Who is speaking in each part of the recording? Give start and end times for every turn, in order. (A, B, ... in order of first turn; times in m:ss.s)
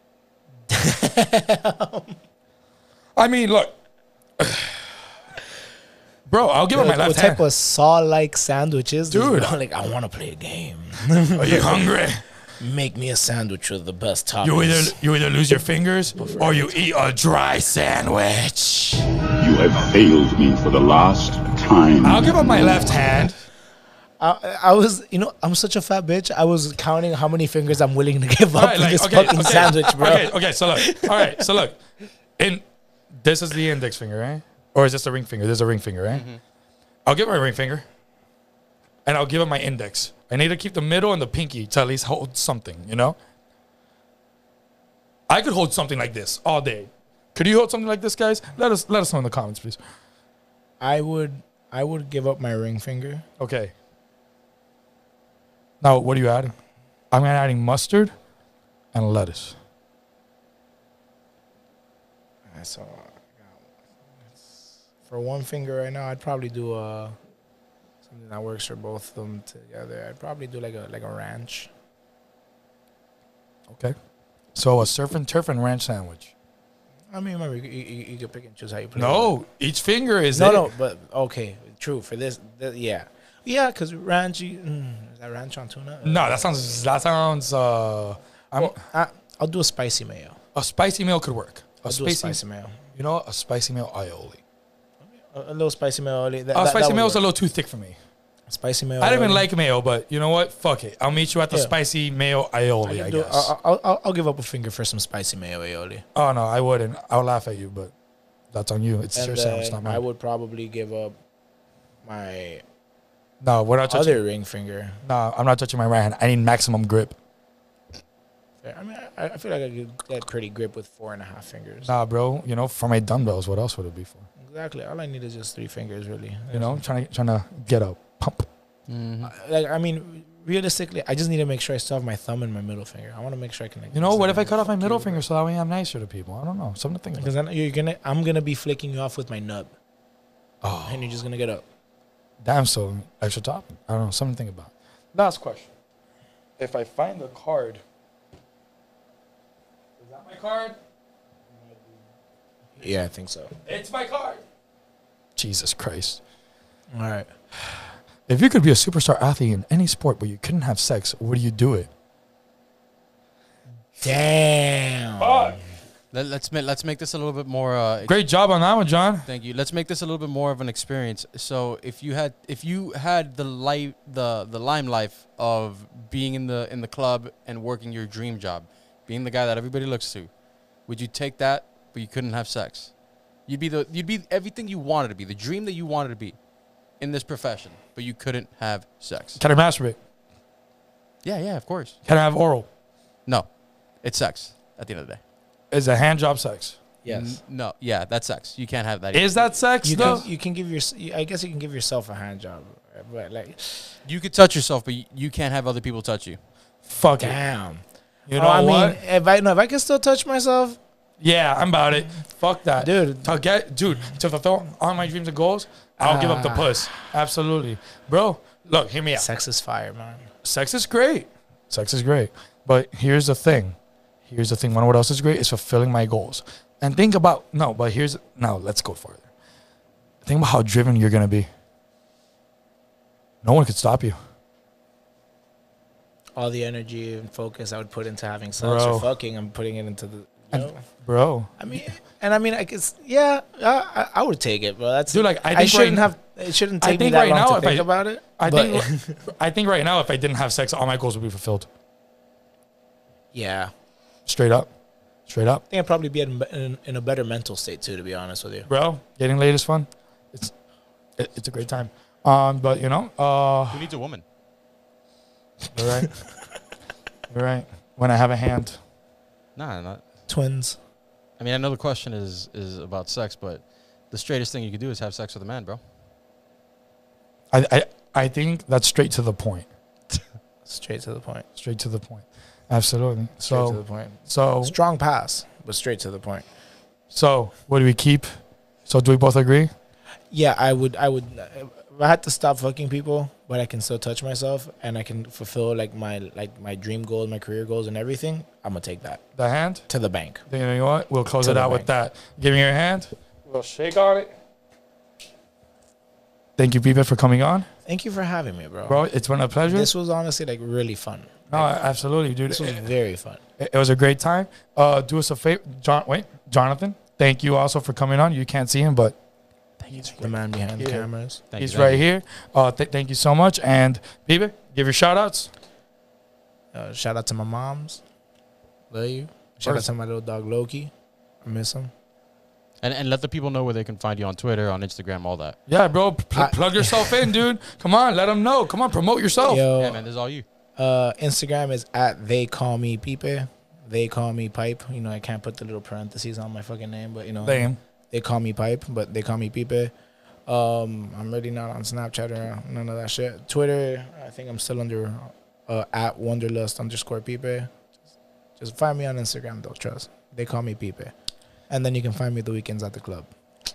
0:00.7-0:02.2 A
0:03.2-0:03.8 B
0:04.4-0:04.9 B
0:06.3-0:07.4 B
0:06.7-0:11.9 A
0:09.1-0:09.6 B
0:11.4-0:12.3 B
0:12.6-0:15.0 A
0:14.4-0:19.0 B
0:16.3-0:16.7 A
0:19.4-0:22.4 C
0:22.0-0:23.4 B
0:24.2-0:31.4 A
0:28.6-0:31.8 B
0:32.4-0:36.3 B
0:36.1-0:36.4 D
0:37.1-0:37.9 B
0:39.0-0:43.2 B
0:45.3-0:49.8 B
0:50.8-0:53.2 A
0:53.4-0:53.7 B
0:55.8-0:56.6 B
0:57.1-0:58.1 B
0:58.9-0:59.6 B
1:02.5-1:03.7 A
1:04.2-1:07.2 A
1:08.1-1:11.7 A
1:13.7-1:14.0 B
1:14.6-1:16.3 B
1:17.1-1:19.4 A
1:19.0-1:20.7 B
1:20.4-1:26.9 A
1:26.0-1:28.8 B
1:28.6-1:30.4 A
1:30.6-1:32.4 B
1:31.8-1:32.8 A
1:32.9-1:34.4 B
1:35.0-1:37.3 A
1:36.5-1:38.0 B
1:38.5-1:39.5 A
1:39.0-1:43.5 B
1:42.8-1:46.0 A
1:46.1-1:47.9 B
1:48.5-1:50.0 B
1:49.2-1:51.2 A
1:52.0-1:52.6 A
1:53.4-1:54.2 B
1:53.9-1:55.0 A
1:55.0-1:57.2 B
1:58.6-2:01.9 A
2:01.8-2:04.3 B
2:04.4-2:06.8 A
2:06.5-2:08.5 B
2:08.9-2:09.3 D
2:09.2-2:15.2 A
2:13.9-2:17.3 B
2:17.2-2:19.7 A
2:20.6-2:21.2 B
2:20.9-2:21.6 A
2:22.4-2:25.7 B
2:26.6-2:27.8 B
2:30.0-2:30.8 B
2:31.6-2:31.9 B
2:32.8-2:33.5 A
2:33.6-2:34.4 B
2:35.4-2:36.2 B
2:36.9-2:37.3 A
2:38.3-2:41.9 B
2:44.0-2:45.6 A
2:45.2-2:45.6 B
2:46.1-2:48.2 D
2:48.0-2:49.3 B
2:49.3-3:09.4 D
3:09.4-3:10.0 B
3:11.2-3:12.0 D
3:12.0-3:12.7 B
3:13.2-3:15.2 D
3:15.7-3:16.9 B
3:17.0-3:17.4 A
3:17.1-3:20.2 D
3:19.1-3:20.3 B
3:19.8-3:24.0 A
3:24.0-3:26.8 D
3:26.8-3:27.4 B
3:27.2-3:30.8 A
3:28.3-3:29.0 B
3:31.2-3:39.3 B
3:32.8-3:33.4 A
3:36.0-3:37.1 A
3:39.2-3:40.3 A
3:40.4-3:49.3 B
3:50.2-3:51.5 B
3:53.4-3:54.2 B
3:56.4-4:00.9 A
3:58.6-3:59.1 B
4:00.5-4:01.8 B
4:01.6-4:09.2 A
4:05.1-4:06.1 B
4:06.8-4:11.7 B
4:13.3-4:13.7 A
4:14.3-4:14.7 B
4:15.3-4:15.6 B
4:15.7-4:18.7 A
4:18.7-4:20.5 B
4:21.2-4:23.9 B
4:23.7-4:24.2 D
4:25.7-4:26.2 B
4:27.3-4:28.8 B
4:29.6-4:30.0 D
4:30.3-4:30.8 A
4:31.4-4:35.8 D
4:37.5-4:39.7 B
4:40.6-4:41.5 A
4:41.6-4:44.8 B
4:43.4-4:46.5 A
4:47.1-4:49.7 B
4:50.3-4:59.2 A
4:59.4-4:59.9 B
4:59.9-5:00.4 A
5:00.5-5:04.3 B
5:01.4-5:01.9 A
5:06.6-5:07.7 B
5:07.8-5:09.0 A
5:08.9-5:09.9 B
5:09.7-5:11.8 A
5:11.5-5:12.9 B
5:12.5-5:13.4 A
5:13.6-5:19.2 B
5:19.8-5:20.4 D
5:20.2-5:21.4 A
5:20.8-5:25.5 B
5:21.5-5:22.0 D
5:26.7-5:28.0 A
5:28.9-5:30.9 A
5:31.4-5:31.9 A
5:32.8-5:35.6 D
5:35.7-5:39.7 B
5:36.4-5:37.3 A
5:39.4-5:40.1 A
5:39.8-5:40.5 D
5:40.8-5:49.9 A
5:47.4-5:47.8 B
5:50.5-5:57.7 A
5:58.6-6:01.1 A
6:01.7-6:03.3 A